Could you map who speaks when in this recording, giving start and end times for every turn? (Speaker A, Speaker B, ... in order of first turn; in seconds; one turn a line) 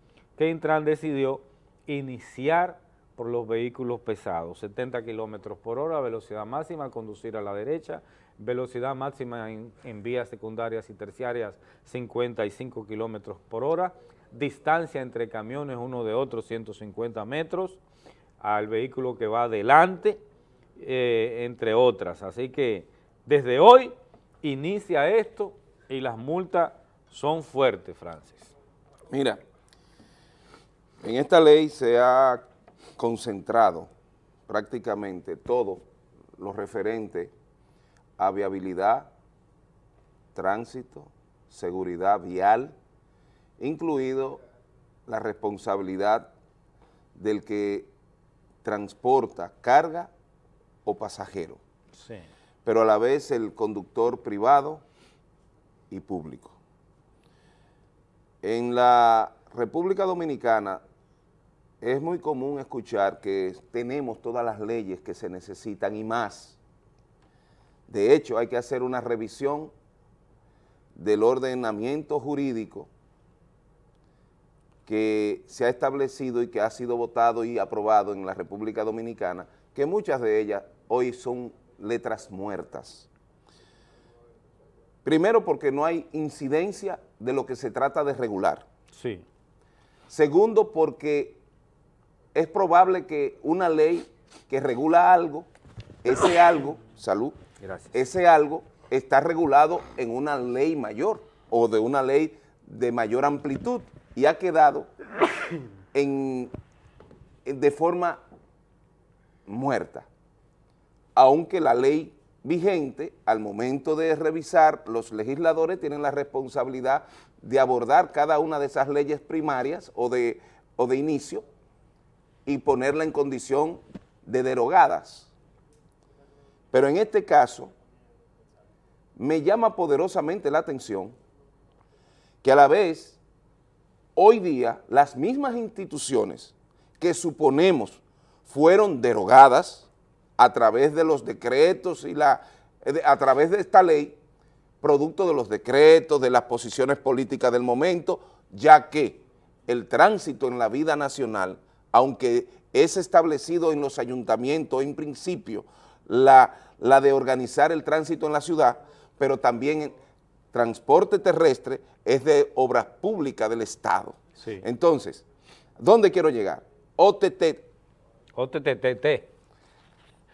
Speaker A: 0.4-17.8
Speaker A: 18.4-20.2
Speaker A: 20.8-28.5
Speaker B: 29.1-29.4
Speaker B: 31.0-32.4
Speaker B: 33.0-33.9
Speaker B: 34.5-35.9
Speaker B: 36.4-37.3
Speaker B: 38.2-39.1
Speaker B: 40.3-42.8
Speaker B: 43.6-44.4
Speaker B: 45.1-46.3
Speaker B: 47.1-47.9
Speaker B: 48.6-50.1
Speaker B: 50.9-51.6
Speaker A: 51.9-52.3
Speaker B: 52.6-54.8
Speaker B: 55.9-56.6
Speaker B: 58.4-60.8
Speaker B: 61.8-66.6
Speaker B: 67.9-69.7
Speaker B: 71.0-72.9
Speaker B: 74.9-83.1
Speaker B: 85.0-88.7
Speaker A: 88.9-89.2
Speaker B: 90.1-91.4
Speaker B: 92.3-95.5
Speaker B: 96.0-97.4
Speaker A: 97.6-97.9
Speaker B: 97.9-104.9
Speaker B: 105.9-106.5
Speaker B: 107.5-108.2
Speaker B: 109.5-110.1
Speaker B: 111.2-121.5
Speaker B: 122.5-125.3
Speaker B: 126.7-127.7
Speaker B: 129.2-131.2
Speaker B: 132.4-133.2
Speaker B: 134.2-144.2
Speaker B: 144.8-160.0
Speaker B: 160.5-165.2
Speaker A: 164.4-164.6
Speaker B: 165.8-167.7
Speaker A: 168.3-169.3